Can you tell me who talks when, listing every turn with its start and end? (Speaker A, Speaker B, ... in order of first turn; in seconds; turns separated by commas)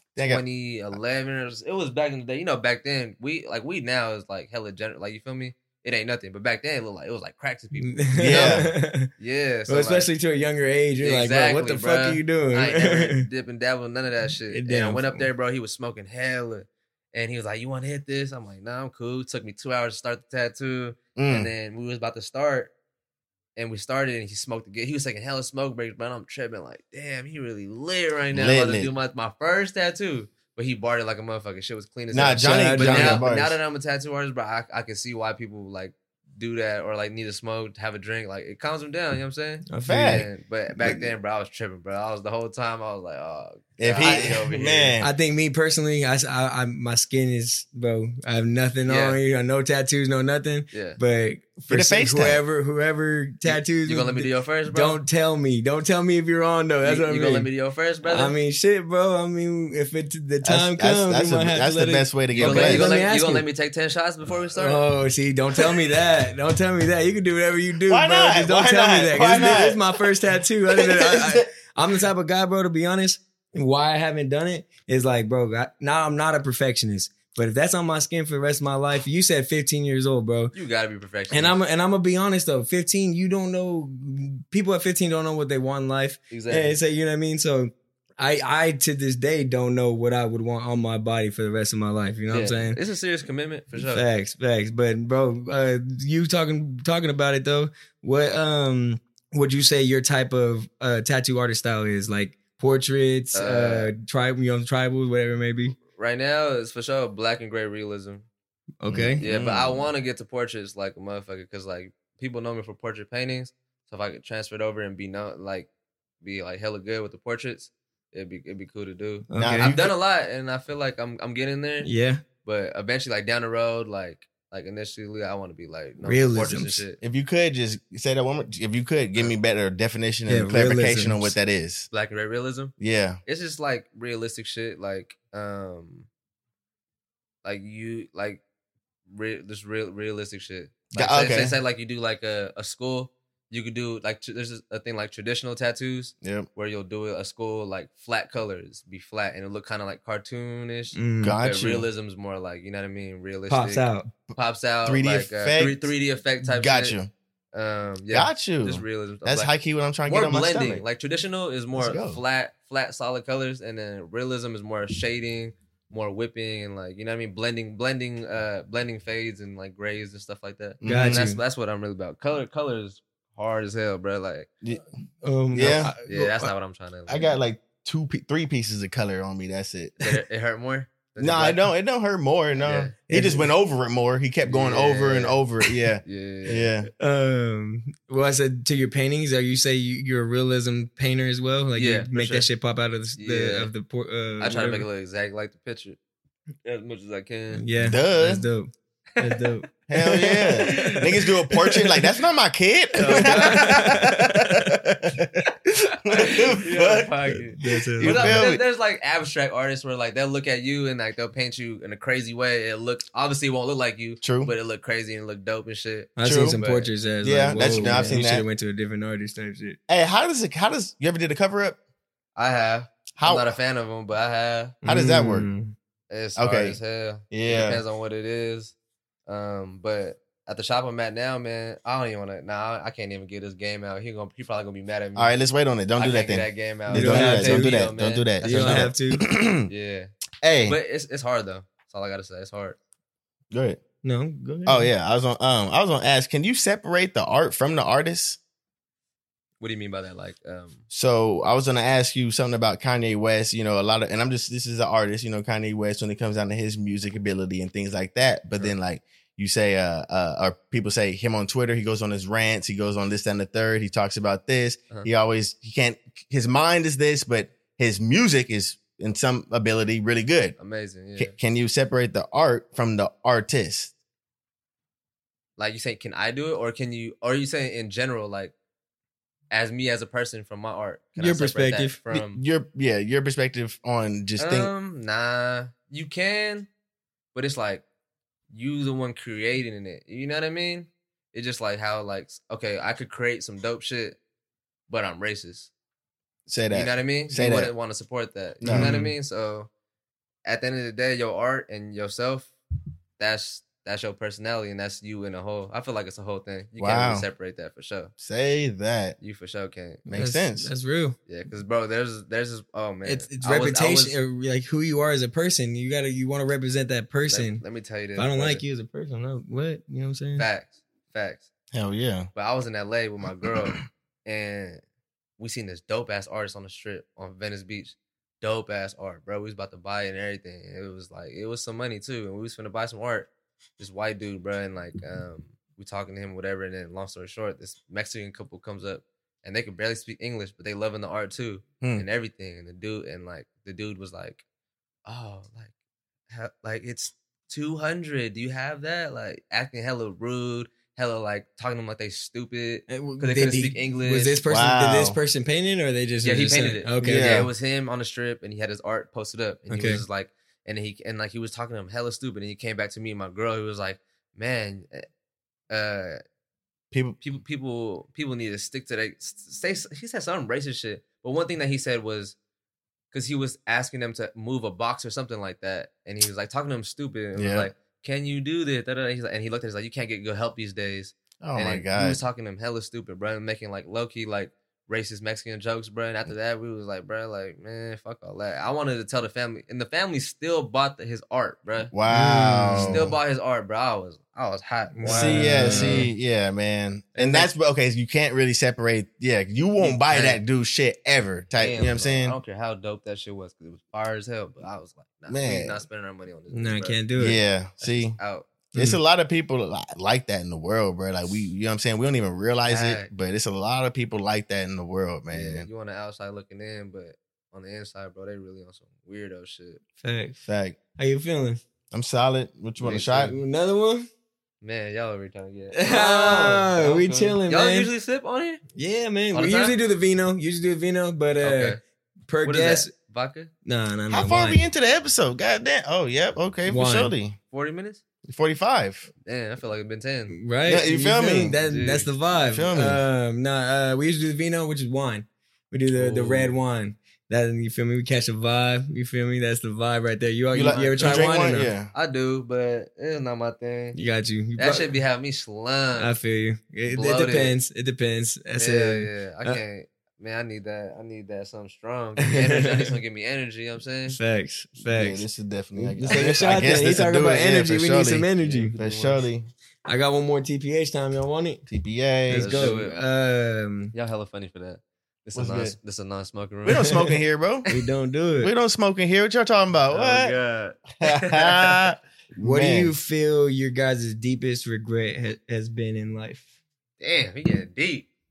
Speaker A: 0.1-0.4, Speaker B: 0.2-8.6, Speaker C: 7.8-9.1, Speaker A: 8.2-8.7, Speaker B: 9.2-10.1, Speaker C: 9.7-13.2, Speaker B: 11.0-22.7, Speaker C: 14.5-15.3, Speaker A: 21.1-21.5, Speaker B: 23.6-44.9, Speaker A: 28.3-28.9, Speaker A: 32.1-33.6, Speaker C: 32.4-33.2, Speaker C: 39.7-40.2, Speaker A: 39.9-40.3, Speaker A: 43.8-45.1, Speaker C: 45.0-57.5, Speaker B: 48.9-49.2, Speaker B: 50.7-51.0, Speaker A: 51.7-52.4, Speaker B: 53.5-55.0, Speaker B: 56.8-58.4, Speaker C: 58.0-63.5, Speaker A: 60.4-62.9, Speaker B: 62.4-64.8, Speaker C: 64.6-80.5, Speaker A: 67.9-70.1, Speaker A: 70.7-71.5, Speaker B: 80.5-81.6, Speaker C: 81.3-92.8, Speaker B: 86.3-86.8, Speaker B: 92.3-94.0, Speaker C: 93.8-105.8, Speaker B: 103.3-103.9, Speaker B: 105.8-108.2, Speaker C: 108.8-109.2, Speaker A: 108.9-109.9, Speaker B: 109.2-115.7, Speaker B: 116.2-121.9, Speaker C: 119.3-119.7, Speaker A: 119.3-119.9, Speaker C: 121.8-122.2, Speaker B: 122.4-127.0, Speaker C: 126.0-126.8, Speaker A: 127.0-131.9, Speaker C: 130.3-131.3, Speaker B: 131.9-132.7, Speaker A: 132.8-133.2, Speaker B: 133.2-136.1, Speaker B: 137.4-138.4, Speaker B: 139.1-157.0, Speaker A: 140.9-141.6, Speaker A: 146.2-146.5, Speaker C: 150.9-151.4, Speaker A: 151.2-151.9, Speaker C: 153.5-154.1, Speaker A: 154.8-155.9, Speaker A: 156.4-157.1, Speaker B: 157.5-159.5, Speaker A: 158.1-160.8, Speaker B: 160.1-174.5, Speaker A: 161.8-162.2, Speaker A: 170.8-171.2, Speaker C: 170.8-171.4, Speaker C: 175.2-176.5, Speaker A: 175.5-175.9, Speaker B: 176.1-177.4, Speaker A: 177.1-180.1, Speaker B: 180.0-181.6, Speaker A: 181.2-186.9, Speaker B: 182.6-182.9, Speaker C: 183.1-183.5, Speaker B: 184.4-185.4, Speaker B: 186.0-186.7, Speaker C: 187.0-194.8, Speaker B: 191.8-192.5, Speaker B: 193.2-193.7, Speaker B: 194.4-196.0, Speaker B: 196.6-197.6, Speaker C: 197.5-201.0, Speaker A: 197.8-198.4, Speaker B: 199.2-199.4, Speaker A: 199.9-205.5, Speaker B: 200.5-201.1, Speaker C: 201.5-201.9, Speaker B: 203.0-203.9, Speaker C: 203.0-204.7, Speaker A: 206.0-207.1, Speaker B: 206.1-216.9, Speaker C: 207.3-208.4, Speaker A: 208.0-208.6, Speaker A: 214.2-214.5, Speaker C: 216.2-219.8, Speaker A: 216.2-216.6, Speaker A: 217.2-218.4, Speaker B: 217.6-218.1, Speaker A: 219.9-221.8, Speaker B: 222.3-224.8, Speaker A: 223.2-223.5, Speaker A: 224.8-225.5, Speaker C: 224.8-225.7, Speaker B: 226.1-228.7, Speaker A: 226.3-226.8, Speaker A: 227.3-227.8, Speaker B: 229.3-235.3, Speaker A: 235.2-239.7, Speaker B: 236.0-238.9, Speaker C: 236.9-237.8, Speaker C: 238.4-239.2, Speaker B: 239.7-240.1, Speaker A: 240.4-240.8, Speaker B: 240.7-242.8, Speaker A: 243.5-243.8, Speaker C: 244.0-244.9, Speaker A: 244.7-248.4, Speaker B: 249.6-250.8, Speaker A: 250.9-270.6, Speaker B: 270.6-271.3, Speaker A: 271.2-273.9, Speaker B: 275.6-278.5, Speaker B: 279.5-282.4, Speaker C: 281.2-282.0, Speaker A: 282.1-284.7, Speaker B: 284.4-286.7, Speaker B: 287.3-287.8, Speaker B: 288.5-294.2, Speaker B: 294.9-295.7, Speaker A: 296.5-297.7, Speaker B: 296.7-299.7, Speaker A: 298.6-299.0, Speaker C: 298.7-299.1, Speaker B: 300.4-302.5, Speaker B: 303.2-308.1, Speaker A: 306.8-307.2, Speaker A: 308.2-309.1, Speaker B: 309.2-310.0, Speaker A: 310.1-310.7, Speaker C: 310.1-311.2, Speaker B: 311.3-314.2, Speaker C: 313.1-317.6, Speaker B: 317.3-318.6, Speaker C: 318.1-320.5, Speaker B: 320.4-321.5, Speaker A: 321.7-322.3, Speaker B: 322.3-324.8, Speaker B: 325.4-344.4, Speaker B: 345.1-345.7, Speaker B: 346.3-354.4, Speaker C: 352.9-357.3, Speaker A: 354.5-355.2, Speaker B: 356.2-365.1, Speaker A: 357.0-357.5, Speaker C: 359.7-360.0, Speaker B: 365.7-366.2, Speaker A: 366.9-367.2, Speaker B: 367.2-372.4, Speaker B: 373.1-391.9, Speaker A: 377.3-377.7, Speaker A: 381.4-382.2, Speaker A: 391.9-393.1, Speaker C: 392.1-393.0, Speaker B: 392.9-396.1, Speaker C: 394.9-396.1, Speaker A: 395.1-402.4, Speaker B: 397.1-397.5, Speaker B: 399.8-400.4, Speaker B: 401.5-407.0, Speaker A: 405.3-405.8, Speaker C: 406.5-407.4, Speaker A: 407.1-408.2, Speaker B: 407.8-408.5, Speaker A: 408.7-415.7, Speaker B: 412.7-413.1, Speaker B: 415.3-419.8, Speaker C: 420.0-420.4, Speaker A: 420.4-420.8, Speaker C: 421.0-421.6, Speaker A: 421.9-423.3, Speaker B: 422.8-423.3, Speaker C: 423.2-424.1, Speaker B: 424.6-428.6, Speaker C: 425.7-427.9, Speaker C: 428.8-432.9, Speaker B: 429.3-429.8, Speaker B: 431.4-431.8, Speaker B: 432.4-433.5, Speaker C: 433.6-434.6, Speaker A: 434.1-437.4, Speaker C: 436.7-437.1, Speaker B: 437.5-438.0, Speaker A: 438.3-439.1, Speaker B: 439.2-440.4, Speaker C: 440.3-451.7, Speaker A: 440.6-441.6, Speaker B: 441.6-442.1, Speaker A: 442.5-443.0, Speaker B: 445.9-446.6, Speaker A: 450.5-451.9, Speaker B: 450.7-451.3, Speaker B: 451.9-454.0, Speaker C: 453.9-454.9, Speaker B: 454.6-456.2, Speaker C: 456.0-459.6, Speaker B: 456.9-457.5, Speaker B: 458.6-464.2, Speaker C: 462.2-462.9, Speaker C: 464.1-468.7, Speaker A: 464.8-469.5, Speaker B: 468.4-469.2, Speaker C: 469.9-471.6, Speaker A: 471.7-472.8, Speaker C: 472.3-473.9, Speaker B: 472.4-473.0, Speaker B: 473.9-477.0, Speaker A: 475.3-475.8, Speaker A: 476.6-477.6, Speaker C: 477.7-478.5, Speaker A: 478.4-480.4, Speaker B: 479.9-481.8, Speaker A: 481.0-482.9, Speaker C: 482.4-486.5, Speaker B: 487.0-488.1